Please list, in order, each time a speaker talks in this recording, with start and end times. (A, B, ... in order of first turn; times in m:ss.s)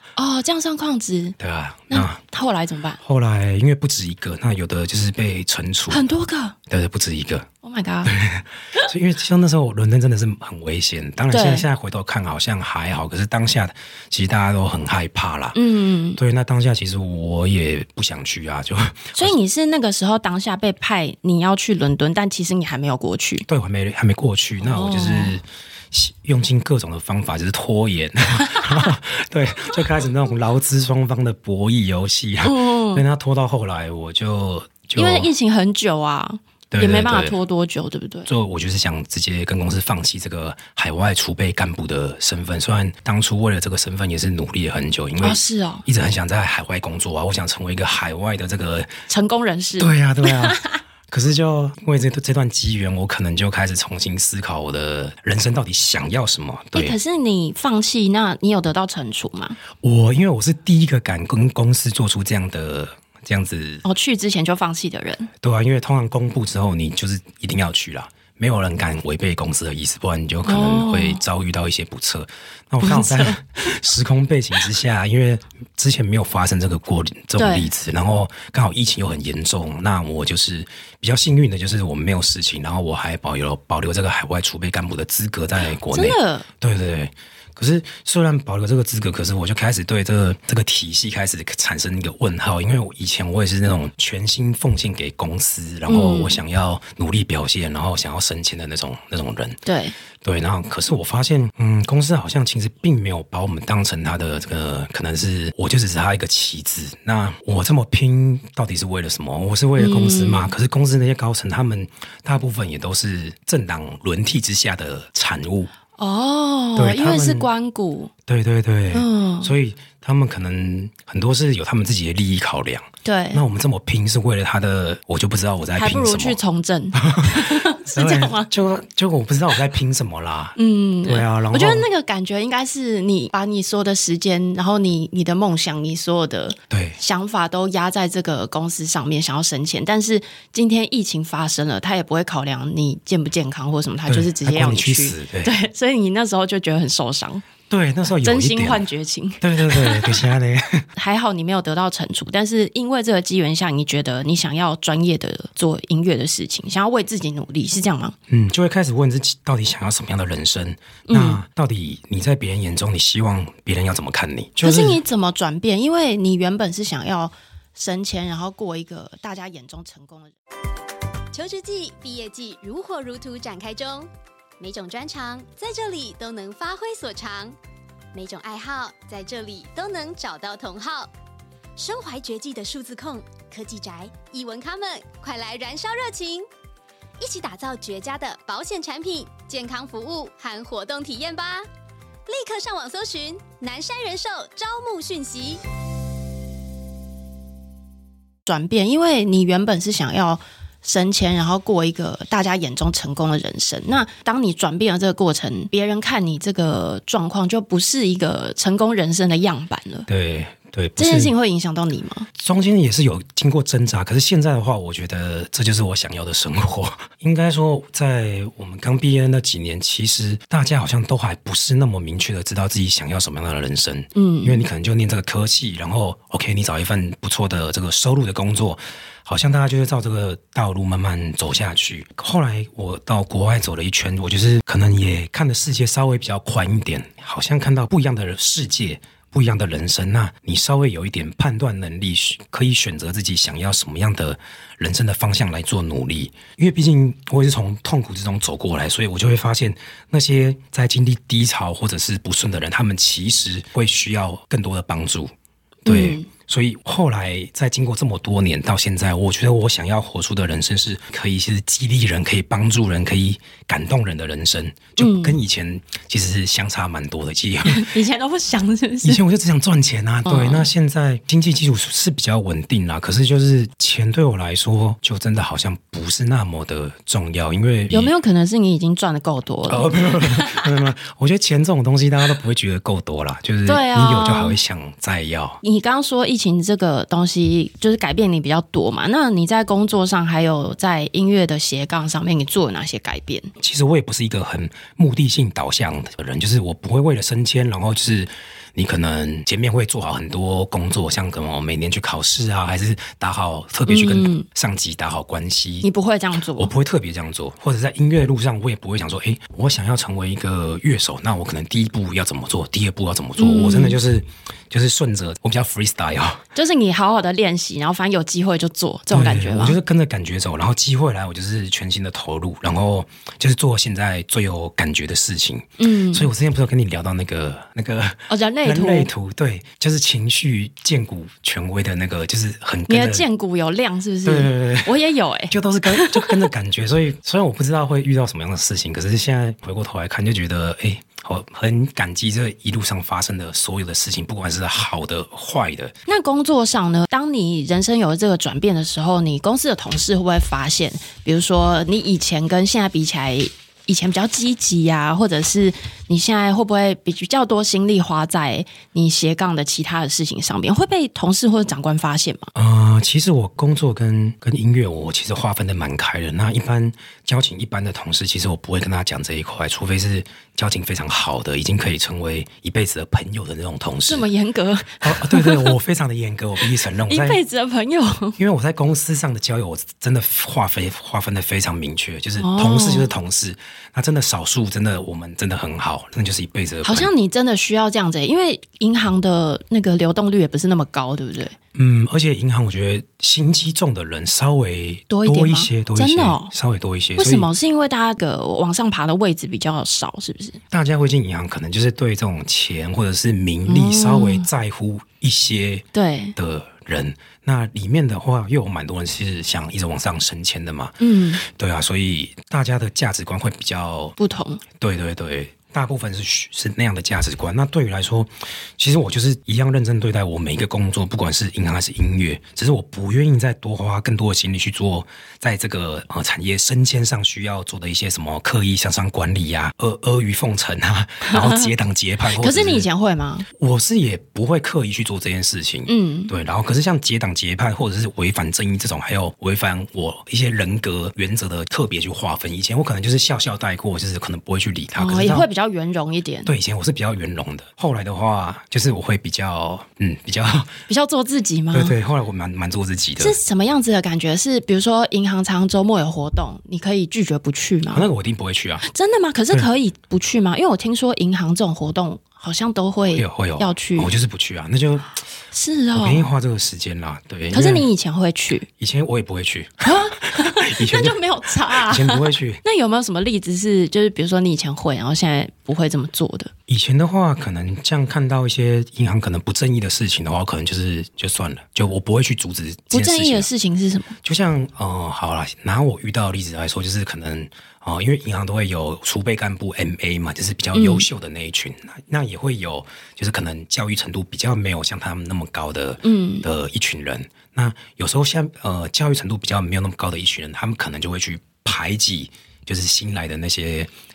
0:00.2-0:01.4 A
0:01.4-0:02.2 B
0:01.9-0:03.0 A
0:03.0-0:06.0 B
0:05.9-0:06.6 A
0:06.7-0:07.5 B
0:07.6-0:08.1 A
0:08.0-0:15.6 B
0:11.3-0:11.7 A
0:15.6-0:16.2 A
0:16.2-0:19.3 B
0:19.2-0:23.5 A
0:23.5-0:35.3 B
0:24.6-0:25.4 A
0:28.6-0:28.9 A
0:32.4-0:33.0 A
0:35.0-0:38.3 A
0:36.7-0:37.4 B
0:38.3-0:48.9 B
0:45.2-0:45.8 A
0:49.1-0:50.8 A
0:49.8-0:57.0 B
0:56.7-0:59.6 A
0:59.8-1:03.8 B
1:03.8-1:05.3 A
1:05.4-1:39.6 B
1:10.4-1:11.2 A
1:12.8-1:13.4 A
1:17.4-1:17.7 A
1:25.9-1:26.5 A
1:35.9-1:36.4 A
1:39.6-1:40.0 A
1:40.2-1:55.7 B
1:49.8-1:50.5 A
1:56.0-1:58.1 A
1:56.8-1:57.5 B
1:58.3-2:06.4 B
1:58.9-1:59.5 A
2:03.0-2:03.4 A
2:05.8-2:08.5 A
2:06.9-2:11.9 B
2:10.6-2:27.5 A
2:16.7-2:17.0 B
2:24.1-2:25.5 B
2:27.7-2:28.8 B
2:28.2-2:30.3 A
2:29.4-2:30.8 B
2:31.0-2:38.2 A
2:38.3-2:45.0 B
2:41.1-2:41.4 A
2:44.6-2:50.4 A
2:51.3-2:57.6 C
2:58.1-3:01.1 C
3:01.8-3:06.5 C
3:07.2-3:11.7 C
3:12.3-3:15.6 C
3:18.5-3:30.1 A
3:30.1-3:31.3 B
3:31.0-3:32.3 A
3:32.4-4:15.3 B
3:44.2-3:44.6 A
4:15.8-4:16.3 A
4:15.8-4:27.9 B
4:25.0-4:25.4 A
4:27.6-4:29.2 A
4:29.0-4:38.1 B
4:30.3-4:30.7 A
4:37.9-4:40.7 A
4:39.7-4:45.6 B
4:43.7-4:44.6 A
4:45.6-4:53.5 A
4:53.6-5:05.9 B
5:03.9-5:04.5 A
5:05.8-5:06.7 A
5:06.6-5:16.4 B
5:13.4-5:14.0 A
5:16.6-5:19.8 A
5:19.1-5:33.2 B
5:25.8-5:26.3 A
5:28.3-5:29.1 A
5:32.9-5:36.5 A
5:34.2-5:35.0 B
5:35.5-5:46.0 B
5:46.1-6:02.5 A
6:02.6-6:14.3 B
6:14.1-6:15.8 A
6:15.0-6:17.4 B
6:16.6-6:18.4 A
6:18.4-6:27.1 B
6:22.4-6:23.1 A
6:26.8-6:31.6 A
6:31.8-6:37.5 B
6:35.1-6:36.5 A
6:37.2-6:40.6 A
6:40.7-6:54.2 B
6:43.7-6:44.5 A
6:45.9-6:46.4 A
6:51.0-6:51.4 A
6:54.2-6:54.6 A
6:54.8-7:12.9 B
7:11.3-7:11.7 A
7:12.4-7:13.5 A
7:13.6-7:25.5 B
7:15.9-7:16.3 A
7:25.0-7:26.5 A
7:26.5-7:30.8 B
7:30.9-7:32.0 A
7:31.7-7:33.4 B
7:33.2-7:38.1 A
7:37.9-7:38.8 B
7:38.8-7:44.1 A
7:43.1-7:45.2 B
7:45.5-7:46.3 A
7:45.9-7:47.9 B
7:47.5-7:48.7 A
7:48.8-7:52.6 B
7:49.8-7:56.5 A
7:56.7-8:03.5 B
8:02.9-8:04.2 A
8:04.2-8:23.9 B
8:10.7-8:11.1 A
8:16.0-8:16.5 A